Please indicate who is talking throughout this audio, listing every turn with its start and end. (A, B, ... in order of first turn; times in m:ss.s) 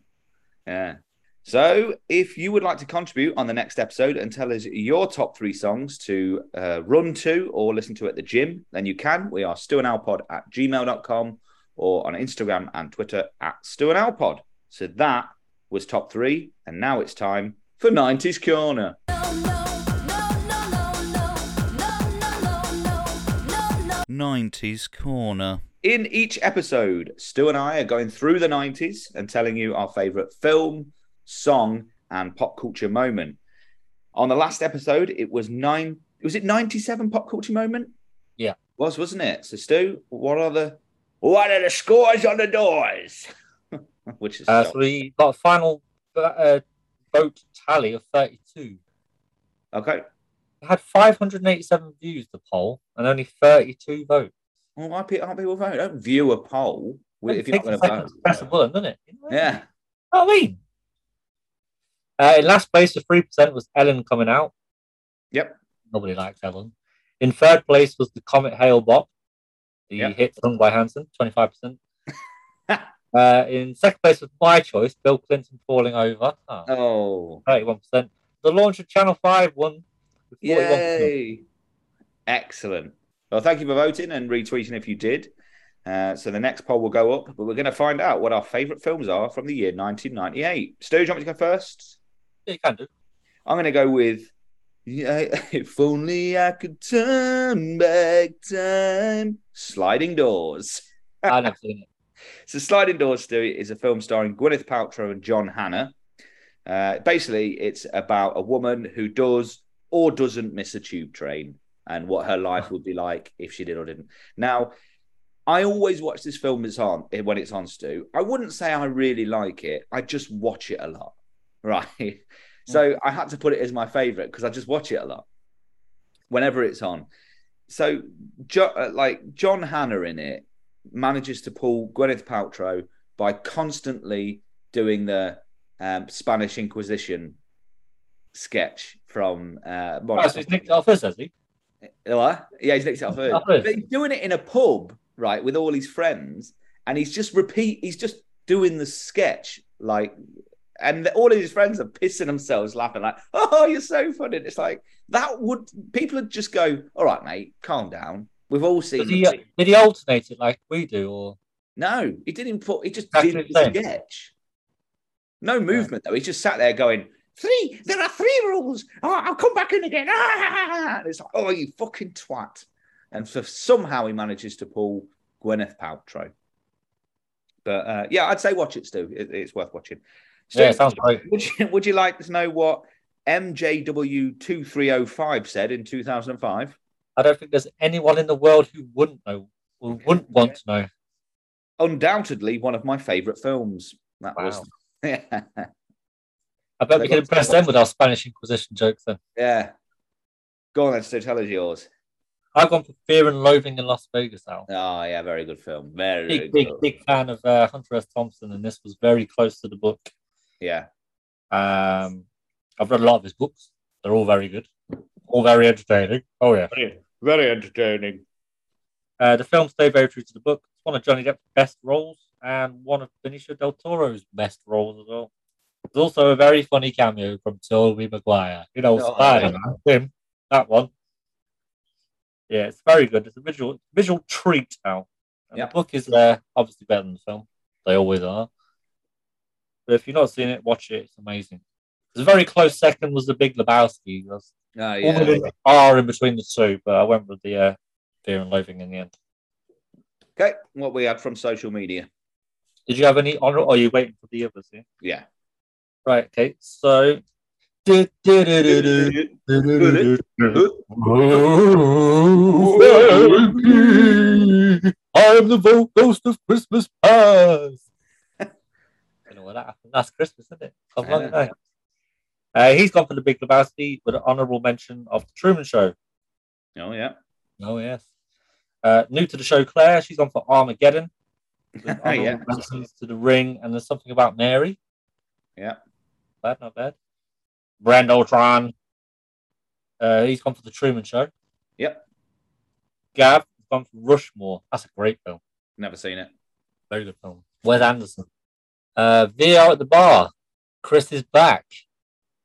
0:00.6-0:19.0 A
0:19.3-0:24.0 B
0:24.1-0:33.4 A
0:34.1-0:37.9 A
0:38.8-0:43.3 A
0:44.1-0:44.8 A
0:44.5-0:48.8 C
0:49.7-0:50.0 A
0:50.6-0:54.3 C
0:54.8-0:58.4 A
0:57.3-0:59.6 C
0:59.3-0:59.6 A
1:00.1-1:00.6 C
1:02.2-1:04.5 C
1:05.3-1:05.6 A
1:05.9-1:09.1 C
1:09.9-1:11.8 C
1:13.1-1:16.7 C
1:16.7-1:17.4 A
1:17.4-1:21.1 C
1:20.4-1:21.4 A
1:22.3-1:25.3 A
1:25.8-1:32.0 A
1:32.5-1:32.9 C
1:33.4-1:34.3 A
1:34.8-1:41.4 A
1:41.3-1:41.9 C
1:42.5-1:45.9 A
1:46.6-1:54.7 A
1:55.5-2:05.2 A
2:06.3-2:07.1 A
2:07.7-2:17.4 A
2:18.3-2:20.5 A
2:20.2-2:21.3 C
2:22.0-2:30.1 A
2:23.3-2:23.7 C
2:30.8-2:39.4 A
2:39.0-2:41.4 C
2:41.8-2:44.3 A
2:43.1-2:43.8 C
2:45.4-2:56.3 A
2:57.6-3:06.8 A
3:00.5-3:01.2 C
3:07.2-3:10.9 C
3:11.8-3:15.7 A
3:14.4-3:14.6 C
3:16.8-3:19.2 C
3:17.0-3:17.5 A
3:19.4-3:19.7 A
3:20.7-3:21.9 A
3:22.5-3:24.7 C
3:24.7-3:26.8 A
3:26.3-3:30.1 C
3:30.6-3:30.9 A
3:31.5-3:32.2 C
3:32.8-3:34.7 C
3:35.3-3:36.7 C
3:36.7-3:38.2 A
3:39.2-3:45.3 C
3:45.9-3:50.9 C
3:49.0-3:49.5 A
3:52.5-3:58.5 C
3:59.9-4:01.6 C
4:02.1-4:04.5 C
4:04.7-4:05.4 A
4:05.0-4:09.1 C
4:10.4-4:12.1 A
4:12.9-4:14.8 C
4:15.0-4:15.2 A
4:16.0-4:17.2 C
4:17.8-4:27.8 C
4:18.6-4:20.8 A
4:22.4-4:24.1 A
4:29.3-4:31.5 C
4:31.0-4:31.4 A
4:32.5-4:35.9 C
4:36.8-4:37.2 A
4:37.6-4:38.0 C
4:38.8-4:41.1 C
4:41.8-4:42.4 A
4:41.8-4:44.8 C
4:46.4-4:46.9 C
4:47.8-4:48.7 C
4:50.0-4:51.3 C
4:51.8-4:52.0 A
4:53.1-4:55.4 C
4:55.8-4:56.3 A
4:56.9-4:58.2 C
4:59.0-5:00.3 C
5:00.8-5:01.7 C